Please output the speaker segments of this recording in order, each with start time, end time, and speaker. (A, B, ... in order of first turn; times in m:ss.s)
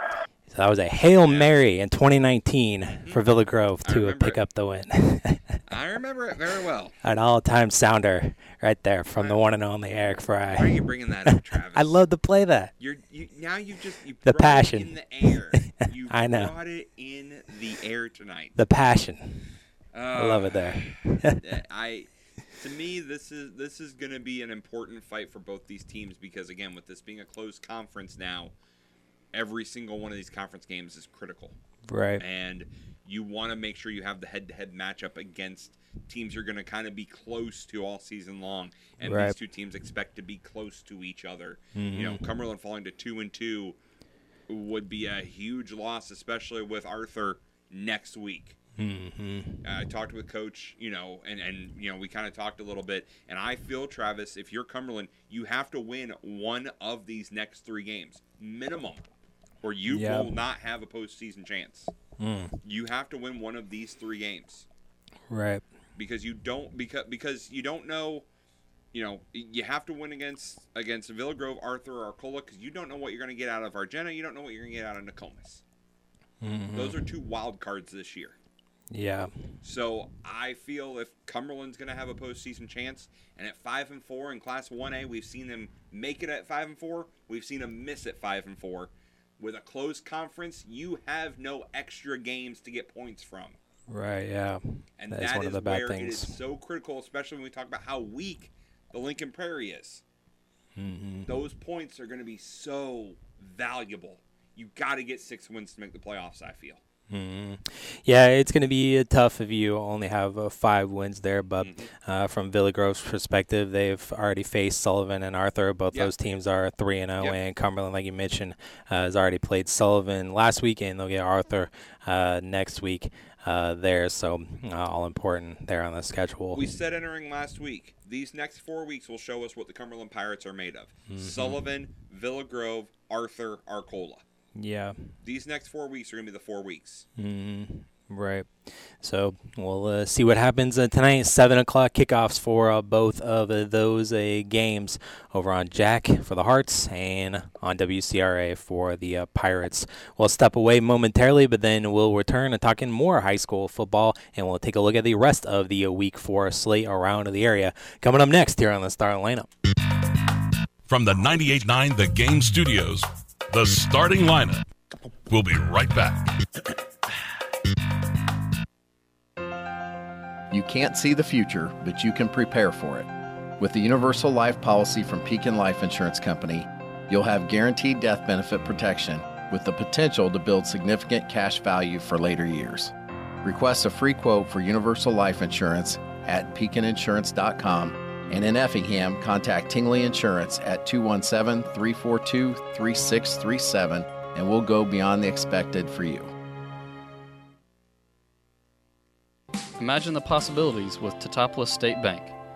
0:00.5-0:05.6 A
0:01.2-0:01.6 B
0:02.9-0:03.2 B
0:03.8-0:04.4 B
0:05.7-0:06.9 B
0:07.0-0:12.7 A
0:10.5-0:12.0 B
0:12.8-0:18.6 B
0:14.2-0:15.4 A
0:16.1-0:16.5 A
0:18.6-0:19.5 A
0:19.9-0:28.5 B
0:20.1-0:21.4 A
0:29.3-0:31.6 B
0:31.9-0:32.2 A
0:32.2-0:43.8 B
0:39.0-0:39.4 A
0:41.8-0:42.2 A
0:44.5-0:48.6 B
0:48.8-0:49.6 A
0:49.6-0:59.1 B
0:59.6-1:01.9 B
0:59.9-1:00.3 A
1:02.2-1:02.6 A
1:02.6-1:04.7 B
1:05.3-1:05.6 A
1:06.0-1:08.3 B
1:08.9-1:15.6 B
1:16.4-1:17.0 A
1:16.7-1:18.4 B
1:18.9-1:19.3 A
1:19.6-1:33.6 B
1:33.9-1:36.3 A
1:35.0-1:40.0 B
1:40.8-1:41.3 A
1:41.3-1:46.8 B
1:47.1-2:06.7 A
1:51.6-1:51.9 B
2:06.5-2:14.2 B
2:11.1-2:11.6 A
2:14.6-2:15.1 A
2:15.2-2:17.1 B
2:17.2-2:39.5 A
2:40.9-2:44.6 C
2:45.3-2:46.2 C
2:50.5-2:53.1 D
2:53.6-3:02.9 D
3:03.4-3:16.3 D
3:19.8-3:22.3 E